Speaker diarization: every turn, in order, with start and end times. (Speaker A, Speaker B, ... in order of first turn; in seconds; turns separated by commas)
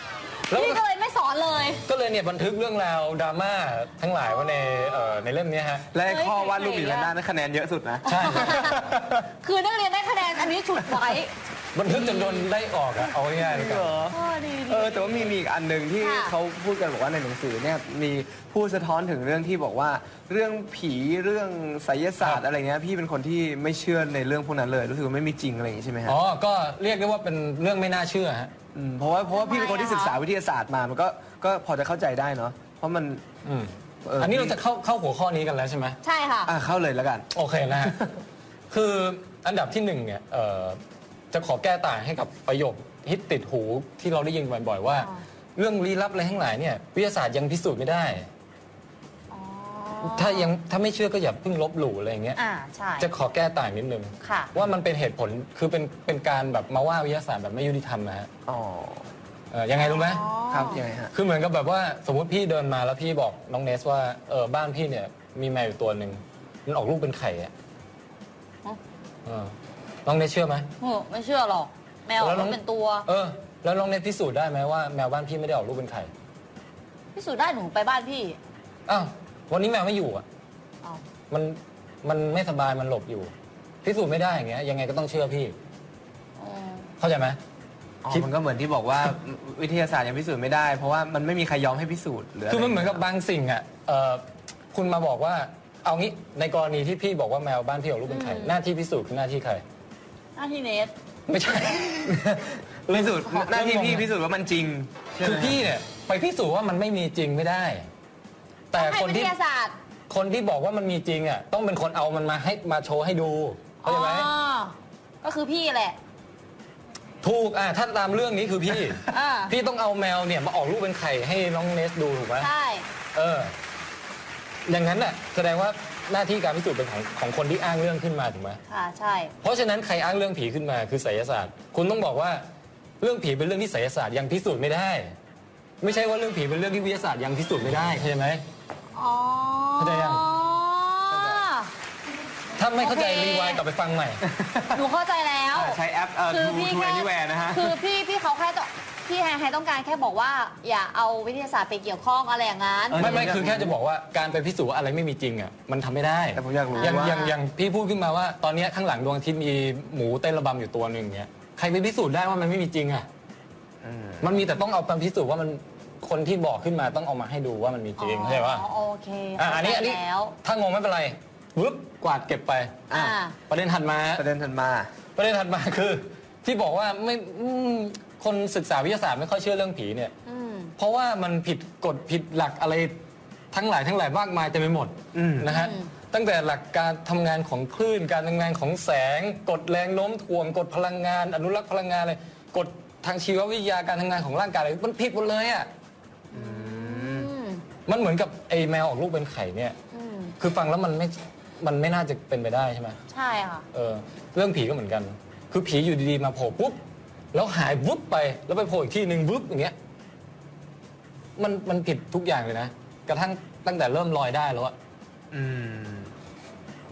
Speaker A: 0.5-1.8, Speaker B: 0.5-0.8, Speaker B: 1.9-5.9, Speaker A: 4.2-5.2, Speaker C: 5.9-9.3, Speaker A: 6.0-7.1, Speaker A: 8.1-8.8, Speaker B: 8.1-8.7, Speaker A: 9.4-11.3, Speaker B: 11.8-14.0, Speaker A: 11.9-12.5, Speaker C: 13.3-26.2, Speaker A: 14.1-15.3, Speaker A: 16.0-16.4, Speaker B: 26.1-28.5, Speaker C: 28.7-33.2, Speaker A: 29.3-30.2, Speaker C: 34.0-34.6, Speaker B: 34.2-36.0, Speaker A: 36.0-36.5, Speaker C: 36.5-37.3, Speaker B: 37.4-37.9, Speaker C: 37.8-38.1, Speaker B: 38.7-40.8, Speaker B: 41.3-48.3, Speaker A: 45.0-45.2, Speaker A: 49.3-50.5, Speaker B: 50.0-52.4, Speaker A: 52.4-53.1, Speaker B: 53.0-58.3, Speaker A: 54.2-54.5, Speaker C: 58.5-59.1, Speaker B: 59.5-60.2, Speaker A: 59.8-60.8, Speaker C: 60.5-61.1, Speaker B: 61.1-67.5, Speaker B: 70.1-70.7, Speaker A: 70.8-73.1, Speaker B: 72.2-76.1, Speaker A: 77.1-78.4, Speaker B: 78.9-80.2, Speaker B: 81.3-83.3, Speaker B: 83.8-85.5, Speaker A: 86.4-86.9, Speaker B: 87.0-87.4, Speaker C: 88.0-93.0, Speaker B: 92.5-94.2, Speaker B: 94.7-99.6, Speaker A: 98.1-98.5, Speaker A: 100.4-100.9, Speaker B: 101.3-102.2, Speaker C: 102.2-105.7, Speaker B: 102.9-104.1, Speaker B: 105.2-107.8, Speaker A: 108.7-109.8, Speaker B: 108.7-109.3, Speaker B: 110.1-114.3, Speaker A: 113.8-116.0, Speaker B: 117.2-119.0, Speaker A: 119.1-119.5, Speaker B: 119.5-122.5, Speaker A: 122.4-122.9, Speaker B: 123.2-123.5, Speaker B: 124.7-128.6, Speaker A: 128.7-129.3, Speaker B: 129.4-132.4, Speaker B: 133.0-135.1, Speaker B: 135.8-138.4, Speaker A: 138.9-141.7, Speaker B: 139.8-140.2, Speaker C: 141.1-141.4, Speaker B: 142.6-144.2, Speaker A: 142.8-143.6, Speaker C: 144.2-144.8, Speaker A: 144.7-153.1, Speaker C: 145.5-147.8, Speaker C: 152.9-153.8, Speaker B: 153.0-163.1, Speaker C: 156.4-157.2, Speaker A: 156.7-157.4, Speaker C: 163.8-164.3, Speaker B: 164.2-168.7, Speaker A: 168.0-170.3, Speaker B: 169.4-172.7, Speaker C: 172.9-173.2, Speaker A: 172.9-173.4, Speaker B: 173.5-174.2, Speaker C: 174.2-174.9, Speaker B: 175.2-180.1, Speaker A: 180.3-180.8, Speaker B: 180.8-182.9, Speaker B: 183.5-184.9, Speaker C: 185.1-185.5, Speaker A: 185.4-185.9, Speaker B: 185.5-195.7, Speaker C: 196.3-197.3, Speaker A: 196.3-197.6, Speaker B: 197.9-199.8, Speaker A: 199.9-200.3, Speaker B: 200.4-201.1, Speaker B: 201.6-203.0, Speaker A: 203.1-203.7, Speaker B: 203.7-206.8, Speaker B: 207.3-209.7, Speaker B: 211.4-214.7, Speaker C: 215.3-216.1